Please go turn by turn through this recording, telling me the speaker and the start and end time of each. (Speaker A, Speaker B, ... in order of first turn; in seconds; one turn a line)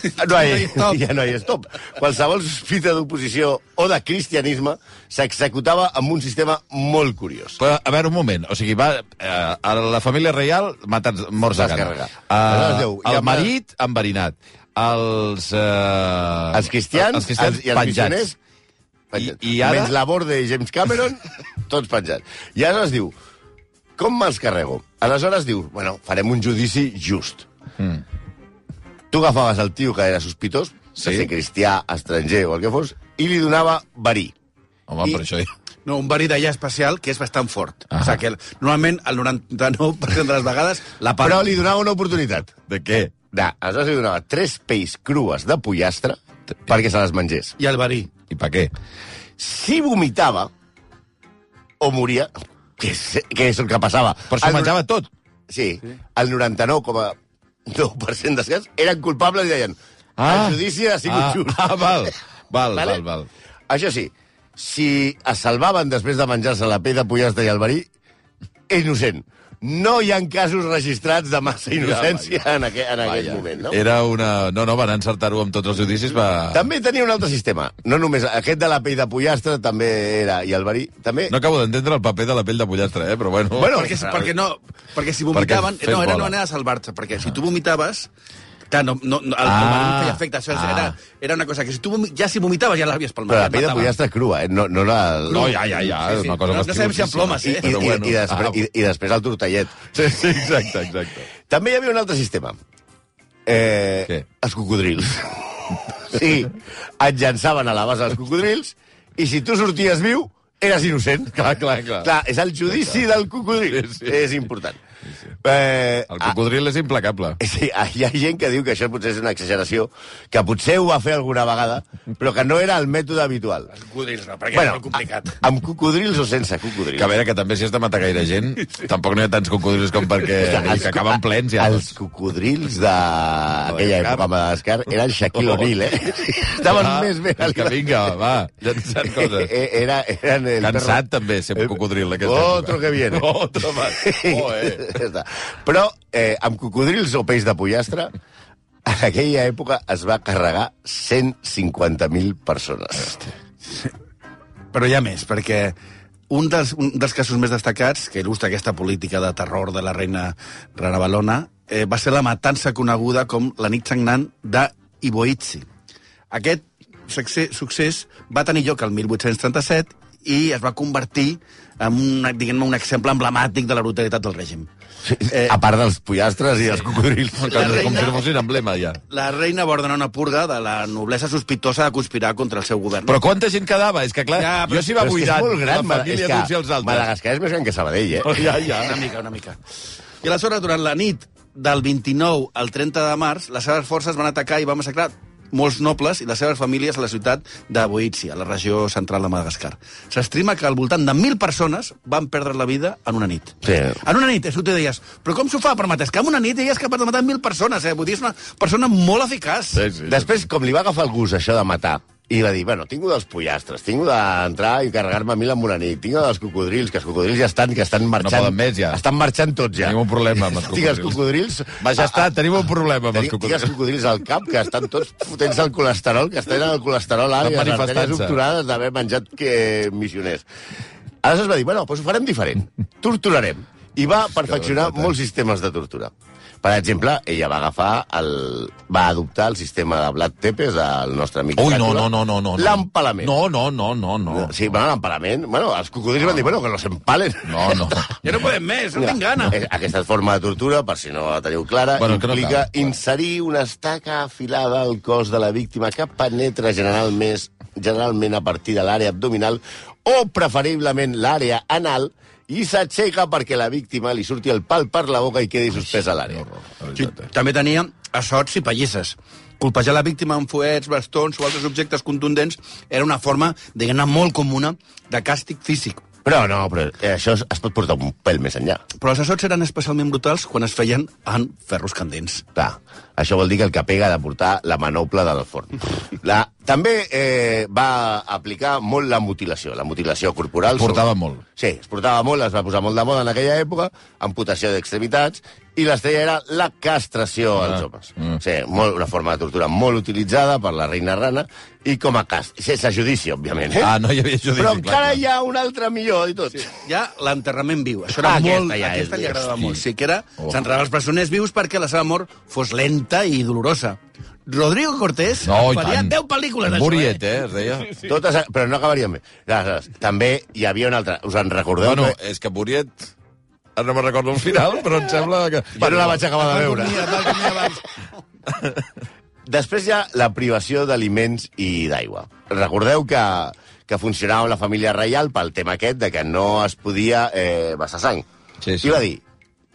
Speaker A: 0.1-1.0
Speaker B: 0.2-7.6
Speaker C: 7.6-18.3
Speaker B: 11.5-13.5
Speaker B: 16.5-18.4
Speaker B: 19.1-23.1
Speaker C: 19.1-19.9
Speaker B: 24.0-27.5
Speaker B: 29.1-34.3
Speaker C: 31.0-31.3
Speaker C: 34.9-35.5
Speaker A: 35.8-41.5
Speaker B: 41.2-42.5
Speaker C: 42.7-43.1
Speaker B: 43.3-47.5
Speaker A: 47.6-48.1
Speaker C: 48.3-48.7
Speaker B: 49.4-50.5
Speaker B: 51.8-54.8
Speaker C: 54.3-55.1
Speaker B: 55.5-57.1
Speaker B: 57.7-62.1
Speaker C: 60.2-63.3
Speaker B: 62.7-63.0
Speaker B: 63.7-67.9
Speaker B: 68.7-73.8
Speaker C: 71.8-72.4
Speaker C: 73.0-76.6
Speaker B: 76.5-81.3
Speaker C: 81.3-83.8
Speaker B: 83.5-84.3
Speaker A: 83.7-88.1
Speaker C: 85.3-86.3
Speaker A: 88.7-93.9
Speaker C: 89.4-90.9
Speaker B: 93.3-95.6
Speaker A: 95.3-97.9
Speaker C: 95.3-98.6
Speaker B: 97.4-100.0
Speaker C: 99.9-101.3
Speaker B: 101.5-102.6
Speaker B: 103.5-111.5
Speaker C: 111.3-112.1
Speaker B: 112.0-114.8
Speaker C: 112.7-113.0
Speaker C: 113.7-114.3
Speaker B: 115.4-116.3
Speaker C: 116.1-117.4
Speaker B: 117.4-123.7
Speaker A: 123.7-125.4
Speaker B: 124.5-127.1
Speaker C: 127.0-131.9
Speaker B: 130.4-138.0
Speaker C: 133.7-134.3
Speaker C: 135.4-135.7
Speaker C: 136.6-139.5
Speaker B: 139.0-141.0
Speaker C: 140.6-144.9
Speaker B: 141.6-148.1
Speaker B: 148.8-153.3
Speaker A: 154.7-155.8
Speaker A: 156.3-165.7
Speaker A: 166.3-174.7
Speaker B: 175.1-178.1
Speaker A: 175.2-175.6
Speaker C: 177.4-179.0
Speaker A: 177.5-178.2
Speaker A: 179.1-183.2
Speaker C: 183.1-187.1
Speaker A: 184.3-184.9
Speaker B: 184.7-188.4
Speaker C: 188.2-189.0
Speaker A: 188.8-189.6
Speaker A: 190.2-209.8
Speaker B: 203.6-204.0
Speaker C: 209.7-210.3
Speaker B: 210.1-222.3
Speaker C: 218.2-219.0
Speaker C: 219.8-221.2
Speaker C: 221.8-223.7
Speaker B: 223.1-230.4
Speaker C: 227.4-228.4
Speaker B: 231.2-243.3
Speaker C: 234.4-235.1
Speaker C: 241.6-244.6
Speaker B: 244.3-248.1
Speaker C: 247.4-248.4
Speaker A: 248.2-249.6
Speaker B: 248.9-266.4
Speaker C: 252.0-252.9
Speaker C: 266.3-267.3
Speaker A: 266.9-276.0
Speaker B: 276.2-278.8
Speaker A: 279.0-282.4
Speaker B: 282.5-303.9
Speaker C: 290.7-291.4
Speaker C: 297.7-298.4
Speaker C: 303.8-305.2
Speaker B: 304.5-306.7
Speaker A: 306.6-317.9
Speaker B: 308.2-309.6
Speaker C: 315.4-317.9
Speaker B: 318.0-322.1
Speaker C: 321.8-323.1
Speaker C: 323.8-326.2
Speaker B: 325.8-327.3
Speaker A: 326.0-328.0
Speaker C: 328.6-328.8
Speaker B: 329.4-338.2
Speaker C: 338.6-339.0
Speaker B: 338.8-339.2